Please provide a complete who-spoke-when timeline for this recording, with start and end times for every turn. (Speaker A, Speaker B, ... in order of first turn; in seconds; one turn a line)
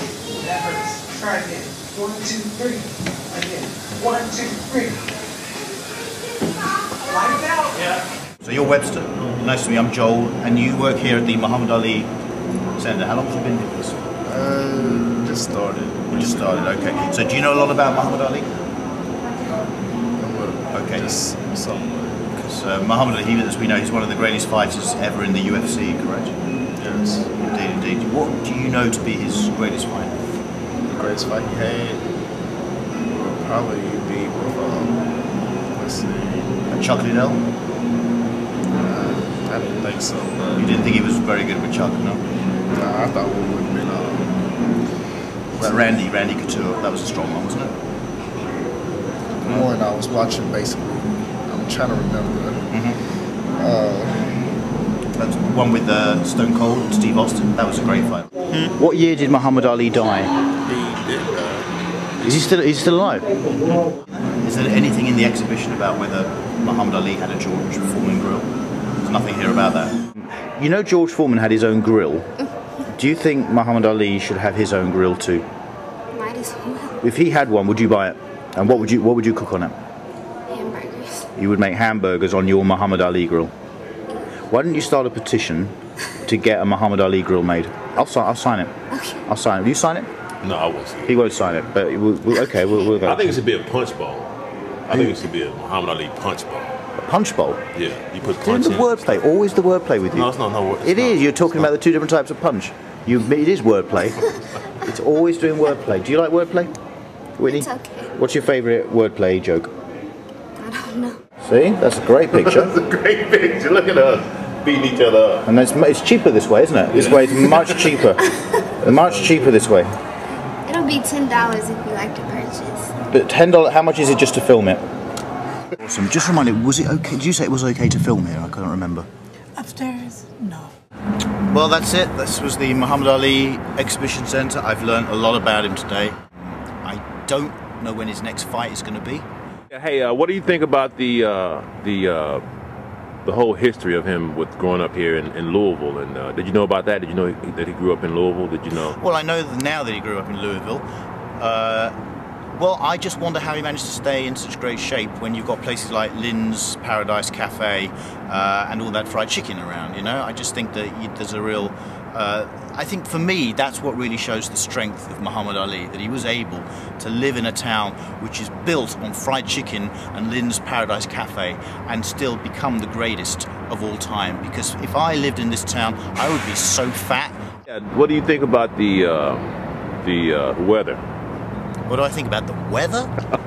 Speaker A: 0.4-5.0
Speaker A: 7.1-7.7
Speaker B: 8.4-12.1
Speaker B: 12.8-14.0
Speaker C: 14.2-16.7
Speaker B: 16.1-18.5
Speaker C: 20.2-22.3
Speaker B: 20.7-21.1
Speaker B: 22.3-26.3
Speaker C: 26.8-27.3
Speaker B: 27.4-30.2
Speaker C: 30.9-32.1
Speaker C: 33.1-35.1
Speaker C: 35.7-36.6
Speaker B: 36.7-37.4
Speaker C: 38.7-40.8
Speaker B: 40.6-42.2
Speaker C: 42.7-44.4
Speaker C: 45.5-46.0
Speaker B: 45.6-47.7
Speaker C: 49.4-52.7
Speaker B: 52.7-53.0
Speaker C: 53.6-54.5
Speaker B: 55.2-60.3
Speaker D: 60.6-61.7
Speaker B: 62.2-68.5
Speaker B: 69.0-72.3
Speaker B: 72.8-75.5
Speaker E: 76.1-77.0
Speaker B: 77.0-79.7
Speaker E: 80.5-81.3
Speaker B: 81.3-83.5
Speaker B: 84.5-88.7
Speaker E: 88.9-89.2
Speaker B: 89.3-90.1
Speaker D: 90.4-91.3
Speaker B: 91.0-93.4
Speaker D: 93.0-94.3
Speaker D: 94.9-96.7
Speaker B: 97.0-97.6
Speaker D: 97.7-99.1
Speaker B: 98.3-106.7
Speaker D: 100.1-101.7
Speaker B: 107.4-109.7
Speaker E: 107.5-108.1
Speaker E: 110.6-111.2
Speaker B: 111.4-112.8
Speaker D: 112.3-115.4
Speaker B: 115.5-118.3
Speaker D: 116.9-118.0
Speaker B: 118.8-119.9
Speaker D: 119.1-119.5
Speaker E: 120.7-122.9
Speaker B: 123.1-124.8
Speaker B: 125.7-129.1
Speaker A: 129.6-130.7
Speaker B: 131.5-136.2
Speaker B: 136.8-139.3
Speaker D: 139.7-142.4
Speaker D: 143.2-149.0
Speaker B: 148.8-150.8
Speaker B: 151.4-151.9
Speaker B: 152.6-177.4
Speaker D: 177.7-181.0
Speaker B: 181.9-183.1